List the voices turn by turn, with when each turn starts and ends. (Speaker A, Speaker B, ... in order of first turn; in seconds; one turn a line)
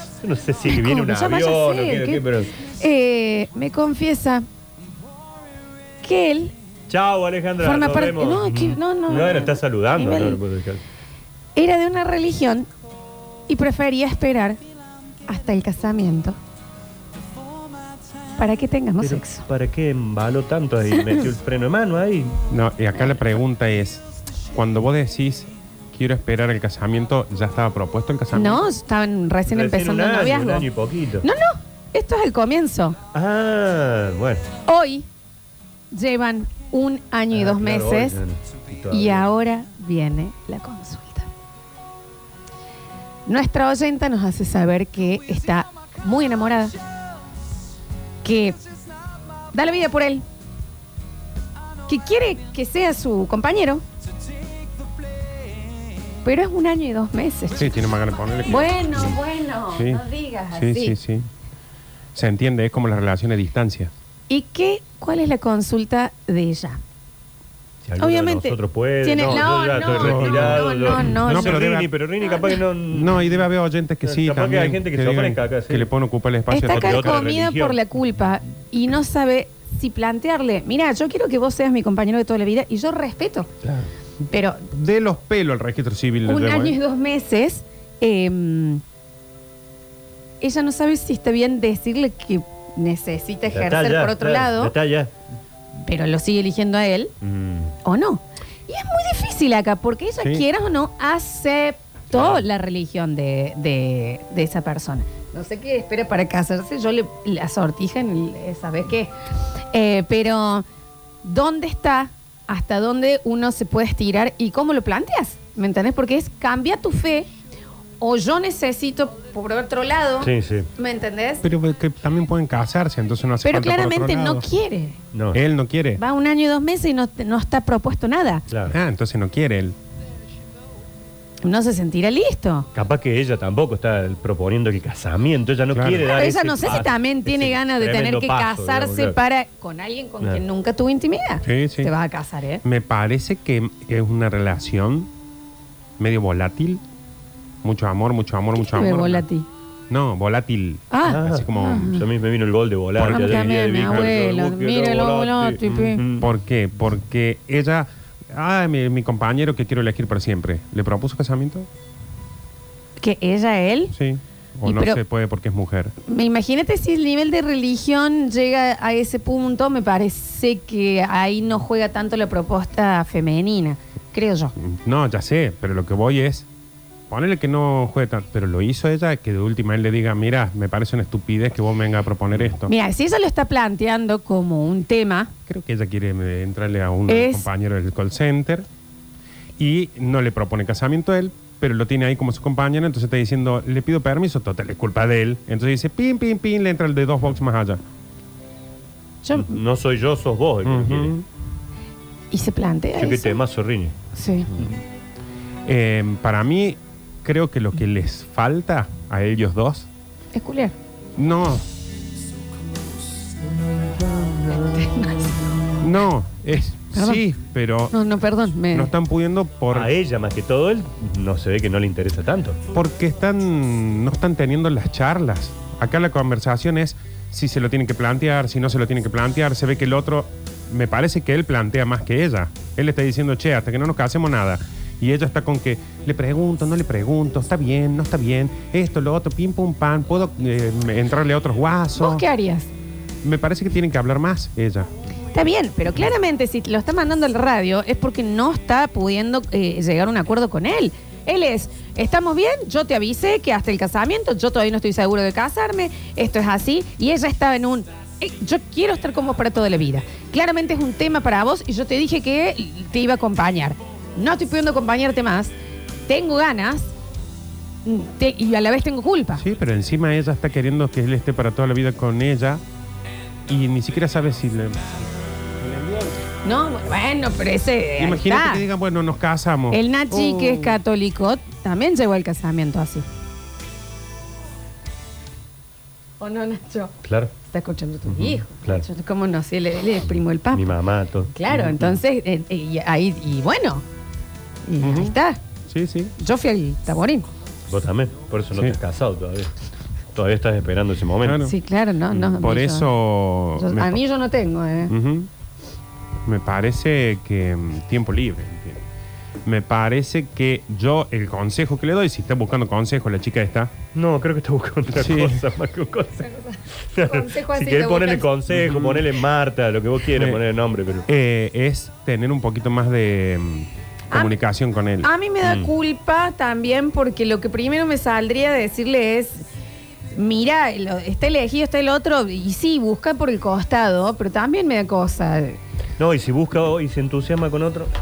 Speaker A: 0.2-2.5
Speaker B: 0.7-4.5
Speaker B: 6.0-6.5
Speaker A: 6.9-10.8
Speaker B: 7.6-10.4
Speaker B: 11.6-12.7
Speaker B: 13.5-14.6
Speaker B: 15.3-16.4
Speaker B: 18.4-19.4
Speaker A: 19.0-22.4
Speaker C: 22.5-28.6
Speaker B: 28.3-30.7
Speaker A: 29.5-31.3
Speaker B: 31.2-33.0
Speaker A: 33.1-34.4
Speaker B: 34.7-35.1
Speaker B: 35.9-38.2
Speaker A: 37.3-39.3
Speaker B: 38.9-41.3
Speaker B: 43.3-46.8
Speaker B: 48.2-48.6
Speaker B: 49.5-50.2
Speaker B: 51.9-53.8
Speaker B: 56.2-57.8
Speaker C: 57.5-59.1
Speaker B: 58.5-61.0
Speaker C: 59.7-60.0
Speaker C: 60.5-61.3
Speaker C: 62.1-63.9
Speaker B: 64.3-66.8
Speaker A: 67.8-73.3
Speaker B: 68.0-71.7
Speaker C: 69.9-71.9
Speaker B: 72.2-72.6
Speaker C: 72.9-77.2
Speaker A: 74.0-75.9
Speaker B: 76.5-83.5
Speaker A: 76.7-77.8
Speaker B: 84.3-84.7
Speaker C: 84.7-86.8
Speaker B: 86.3-88.8
Speaker B: 90.4-94.8
Speaker A: 93.5-95.1
Speaker B: 95.8-97.1
Speaker A: 97.2-97.7
Speaker B: 97.8-109.1
Speaker A: 102.1-102.4
Speaker B: 109.7-110.7
Speaker B: 111.2-117.3
Speaker B: 118.0-121.4
Speaker A: 120.2-120.7
Speaker C: 121.4-124.5
Speaker B: 123.4-125.0
Speaker A: 125.1-125.4
Speaker C: 125.3-126.0
Speaker B: 126.0-128.4
Speaker A: 128.5-128.8
Speaker C: 128.7-129.8
Speaker B: 131.4-132.7
Speaker A: 132.8-139.2
Speaker C: 135.7-136.1
Speaker B: 136.0-142.6
Speaker C: 141.4-141.9
Speaker C: 142.6-145.1
Speaker C: 146.0-146.8
Speaker C: 147.6-149.2
Speaker B: 148.6-149.5
Speaker C: 149.9-152.0
Speaker B: 150.9-152.1
Speaker A: 151.1-156.3
Speaker C: 153.0-154.1
Speaker B: 153.0-156.0
Speaker C: 156.2-161.7
Speaker B: 163.0-163.9
Speaker C: 163.9-165.9
Speaker B: 164.7-165.0
Speaker B: 166.1-174.6
Speaker C: 174.6-176.5
Speaker C: 177.1-182.7
Speaker B: 182.7-185.3
Speaker C: 185.5-188.7
Speaker B: 187.1-187.5
Speaker C: 189.6-197.8
Speaker B: 199.2-199.6
Speaker A: 199.4-201.1
Speaker C: 200.6-201.2
Speaker B: 202.3-203.4
Speaker A: 203.0-203.9
Speaker B: 204.1-204.5
Speaker A: 204.5-204.8
Speaker C: 205.7-209.9
Speaker B: 210.3-210.8
Speaker C: 211.2-211.6
Speaker A: 213.8-215.1
Speaker B: 214.8-215.4
Speaker C: 215.8-217.9
Speaker B: 216.9-217.2
Speaker B: 217.9-218.9
Speaker C: 218.6-219.9
Speaker A: 219.7-222.6
Speaker C: 222.7-242.3
Speaker B: 242.0-242.7
Speaker C: 243.2-244.9
Speaker B: 245.3-265.5
Speaker B: 266.1-266.9
Speaker B: 267.9-269.4
Speaker C: 269.4-272.6
Speaker C: 273.5-276.2
Speaker B: 276.4-278.6
Speaker C: 278.0-280.8
Speaker B: 279.7-283.1
Speaker B: 286.2-290.7
Speaker A: 287.0-287.3
Speaker A: 288.1-288.9
Speaker A: 290.5-292.0
Speaker B: 291.3-293.8
Speaker B: 294.7-295.4
Speaker C: 294.8-295.1
Speaker C: 295.7-296.1
Speaker B: 296.2-297.3
Speaker A: 297.7-299.5
Speaker A: 300.1-301.4
Speaker C: 301.2-301.5
Speaker B: 301.4-302.9
Speaker C: 302.1-304.0
Speaker B: 303.6-304.9
Speaker C: 304.9-305.3
Speaker C: 306.2-308.8
Speaker C: 309.4-313.8
Speaker A: 313.9-316.3
Speaker C: 314.9-315.4
Speaker B: 316.2-318.3
Speaker A: 316.9-321.1
Speaker C: 318.5-319.1
Speaker C: 320.1-320.4
Speaker C: 321.1-325.1
Speaker B: 324.1-324.4
Speaker B: 325.0-329.4
Speaker A: 325.4-325.7
Speaker B: 330.1-335.6
Speaker A: 336.0-337.9